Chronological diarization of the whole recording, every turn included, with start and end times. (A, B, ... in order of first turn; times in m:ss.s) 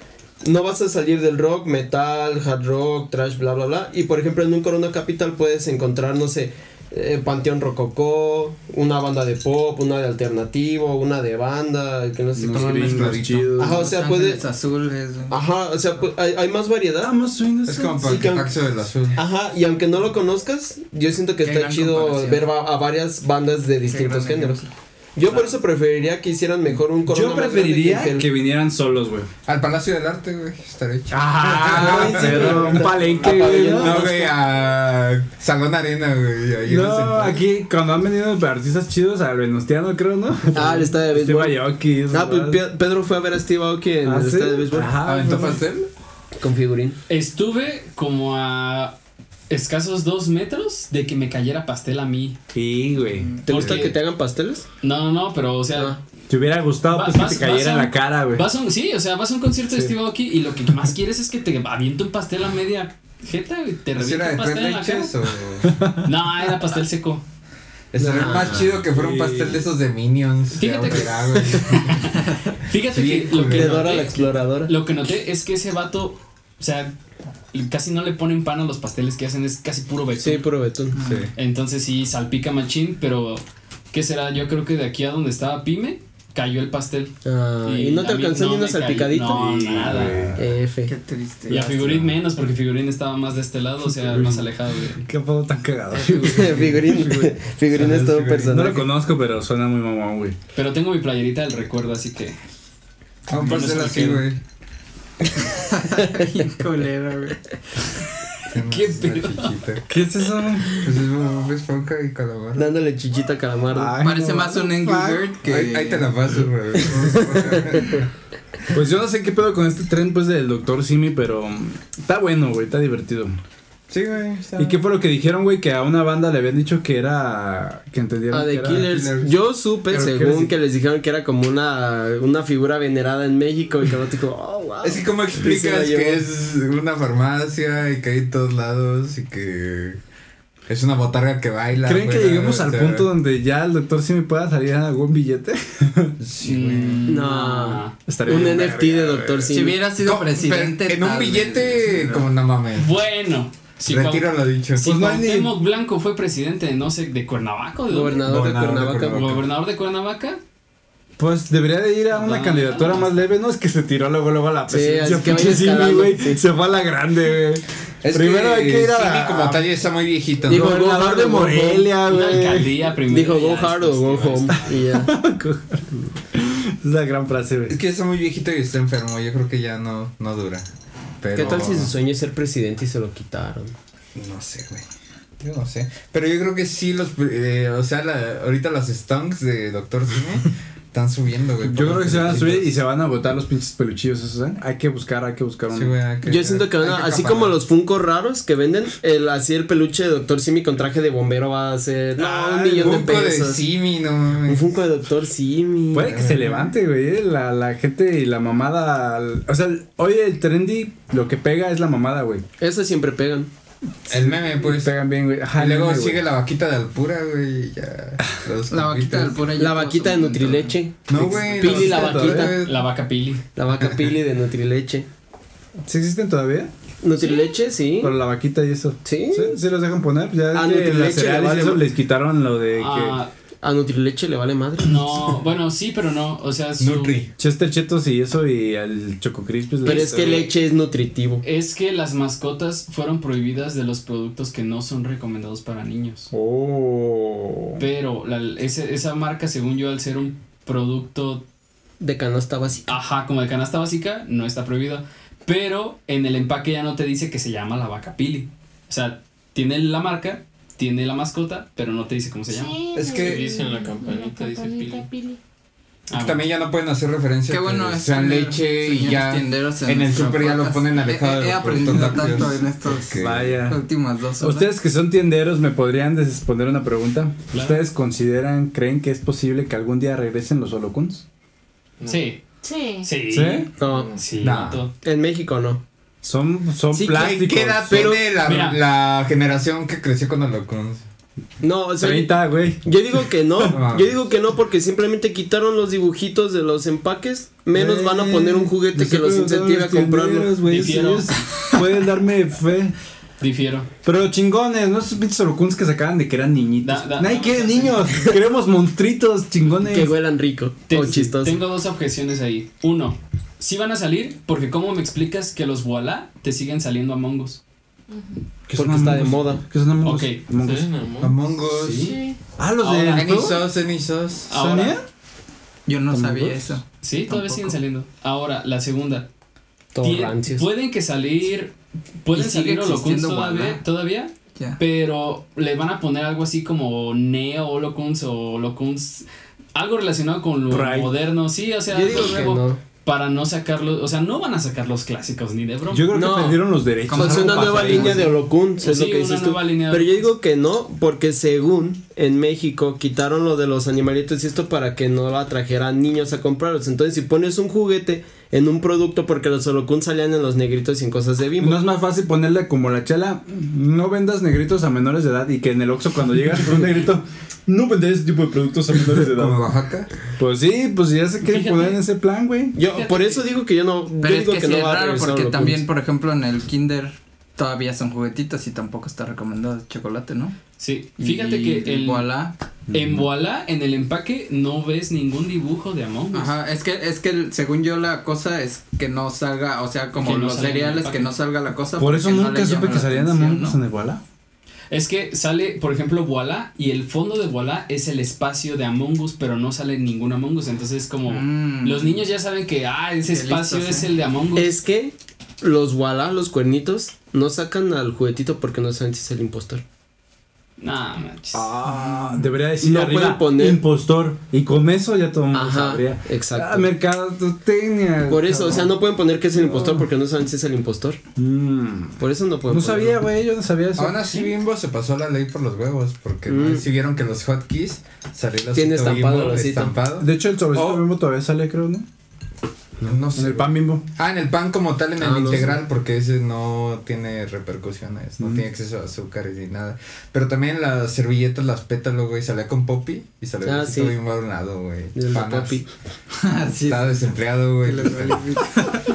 0:00.4-0:14.4 A
0:12.4-0:13.8 B
0:12.5-0:13.5 C
0:13.6-0:15.4 D
0:15.3-0:17.2 A
0:17.0-0:18.3 B
0:17.7-0:19.2 C
0:18.0-0:18.6 A
0:19.2-0:24.6 A
0:21.4-0:22.5 D
0:23.8-0:24.7 D
0:25.2-0:28.3 A
0:25.2-0:25.6 D
0:27.1-0:29.3 B
0:29.5-0:33.1 C
0:31.1-0:34.0 B
0:31.5-0:34.4 A
0:33.6-0:37.4 C
0:36.7-0:42.6 B
0:40.5-0:45.0 A
0:44.0-0:45.6 B
0:45.1-0:45.7 C
0:45.1-0:45.8 D
0:46.4-0:47.0 A
0:47.1-0:49.0 E
0:49.5-0:52.4 E
0:52.5-0:53.4 B
0:53.1-0:53.5 D
0:53.4-0:54.7 A
0:53.5-0:54.0 E
0:53.5-0:53.9 C
0:54.8-0:56.0 E
0:56.3-0:58.4 B
0:56.9-1:05.2 E
1:03.9-1:05.8 C
1:05.6-1:06.1 B
1:06.0-1:07.2 E
1:07.9-1:12.2 C
1:08.0-1:08.8 A
1:08.6-1:09.6 B
1:10.5-1:17.0 E
1:12.8-1:14.0 C
1:13.4-1:14.7 A
1:17.5-1:20.5 E
1:20.2-1:21.0 A
1:20.9-1:21.3 D
1:21.0-1:21.3 C
1:21.4-1:30.4 E
1:27.2-1:30.9 A
1:29.3-1:30.5 B
1:30.9-1:31.7 D
1:31.5-1:35.1 E
1:31.5-1:32.1 B
1:33.8-1:37.4 B
1:36.2-1:38.9 A
1:37.7-1:38.7 C
1:38.5-1:40.4 B
1:40.6-1:42.4 E
1:43.3-1:44.4 C
1:43.3-1:44.3 E
1:45.7-1:47.5 D
1:48.5-1:49.9 C
1:48.6-1:49.6 E
1:49.9-1:50.9 B
1:50.8-1:52.7 C
1:52.6-1:54.0 A
1:53.7-1:55.3 B
1:54.0-1:56.3 D
1:55.5-1:58.0 C
1:57.0-1:57.8 A
1:58.7-2:03.4 B
2:03.9-2:04.8 C
2:04.6-2:08.9 B
2:08.3-2:16.2 A
2:08.7-2:09.3 C
2:09.9-2:10.5 B
2:14.8-2:20.0 C
2:20.7-2:23.1 C
2:21.8-2:26.2 B
2:26.2-2:27.1 C
2:26.4-2:28.0 E
2:27.1-2:29.8 A
2:28.0-2:29.5 B
2:29.5-2:32.3 D
2:30.0-2:32.9 C
2:32.8-2:38.2 E
2:33.9-2:34.9 C
2:34.8-2:35.6 B
2:37.9-2:39.3 A
2:38.2-2:39.4 C
2:39.1-2:40.4 E
2:41.2-2:49.7 B
2:42.1-2:43.2 E
2:44.7-2:46.4 A
2:48.0-2:50.7 C
2:50.5-2:51.9 A
2:50.5-2:52.9 B
2:52.0-2:54.8 E
2:53.1-2:55.1 A
2:54.9-2:57.8 B
2:57.7-3:00.6 C
3:01.2-3:01.9 C
3:01.3-3:03.7 A
3:01.4-3:01.8 B
3:04.2-3:04.9 C
3:05.4-3:12.8 C
3:11.6-3:15.9 B
3:15.7-3:17.6 C
3:16.3-3:23.6 A
3:22.2-3:23.1 B
3:22.8-3:24.8 C
3:24.5-3:26.7 A
3:25.9-3:32.4 B
3:26.1-3:26.3 C
3:32.6-3:33.5 A
3:34.1-3:35.0 C
3:34.1-3:36.2 B
3:35.5-3:39.4 C
3:38.7-3:40.8 D
3:39.6-3:42.6 A
3:41.1-3:42.8 C
3:41.1-3:42.6 B
3:42.5-3:43.4 E
3:43.6-3:45.1 A
3:45.9-3:46.7 B
3:47.0-3:48.2 A
3:47.2-3:47.6 F
3:48.0-3:53.2 B
3:49.0-3:49.6 A
3:50.5-3:51.8 A
3:52.7-3:53.3 E
3:53.6-3:55.1 A
3:54.8-3:57.2 E
3:56.8-3:57.3 C
3:57.4-4:00.5 B
3:59.8-4:01.4 A
3:59.8-4:00.5 E
4:01.4-4:06.3 E
4:06.3-4:07.8 B
4:07.8-4:11.4 E
4:12.0-4:12.9 A
4:12.9-4:22.8 E
4:22.5-4:25.4 F
4:23.0-4:23.5 C
4:23.1-4:25.1 G
4:26.1-4:26.4 E
4:26.1-4:33.6 C
4:27.5-4:34.7 D
4:33.2-4:33.8 B
4:34.4-4:41.2 B
4:37.5-4:37.8 E
4:42.0-4:42.3 G
4:42.1-4:42.4 E
4:42.6-4:43.1 F
4:43.0-4:44.9 E
4:43.3-4:43.7 B
4:43.8-4:44.1 A
4:43.8-4:44.2 G
4:44.4-4:44.9 C
4:45.0-4:45.8 A
4:46.2-4:48.2 B
4:47.0-4:51.0 C
4:47.0-4:47.2 A
4:47.9-4:48.3 A
4:48.4-4:48.8 E
4:51.6-5:00.6 A
4:52.0-4:53.8 B
4:53.7-4:54.2 C
4:57.7-5:03.0 B
5:00.6-5:01.5 E
5:03.4-5:03.9 E
5:04.0-5:10.2 B
5:06.8-5:08.2 E
5:09.8-5:11.6 A
5:10.9-5:17.6 E
5:18.1-5:18.4 F
5:18.7-5:20.9 B
5:18.7-5:19.6 A
5:20.0-5:20.4 E
5:20.5-5:21.9 G
5:21.2-5:22.2 C
5:21.9-5:22.4 F
5:22.6-5:23.6 B
5:22.8-5:23.5 E
5:23.1-5:24.6 C
5:24.5-5:25.0 E
5:24.5-5:25.0 B
5:25.9-5:27.8 D
5:26.1-5:26.8 B
5:27.0-5:29.3 E
5:29.9-5:30.7 A
5:30.0-5:46.1 E
5:32.3-5:33.8 D
5:40.7-5:41.1 B
5:41.9-5:42.8 A
5:45.9-5:48.3 B
5:46.1-6:01.8 A
5:47.1-5:48.3 D
5:48.8-5:50.3 E
6:01.6-6:09.6 B
6:09.1-6:10.1 C
6:10.4-6:12.8 B
6:11.4-6:12.0 E
6:12.8-6:15.8 A
6:12.8-6:13.5 E
6:14.2-6:20.6 D
6:20.8-6:22.3 E
6:21.2-6:22.6 D
6:22.9-6:23.3 B
6:22.9-6:26.6 E
6:26.3-6:33.8 D
6:30.2-6:31.3 E
6:32.0-6:34.2 B
6:34.9-6:44.7 E
6:41.3-6:42.2 D
6:43.3-6:44.1 D
6:44.6-6:49.8 A
6:50.8-6:51.7 E
6:51.5-6:59.0 B
6:51.9-6:52.4 D
6:52.8-6:53.8 A
6:55.5-6:56.9 A
6:58.2-7:01.2 A
6:59.6-7:00.1 B
7:01.4-7:04.4 B
7:02.2-7:03.2 A
7:04.0-7:11.0 C
7:06.5-7:06.8 A
7:08.7-7:10.0 A
7:10.1-7:12.1 B
7:13.0-7:25.8 C
7:13.4-7:14.0 B
7:15.2-7:15.8 A
7:23.6-7:24.2 A
7:25.2-7:25.9 A
7:26.4-7:27.3 D
7:26.9-7:28.7 C
7:27.8-7:29.0 D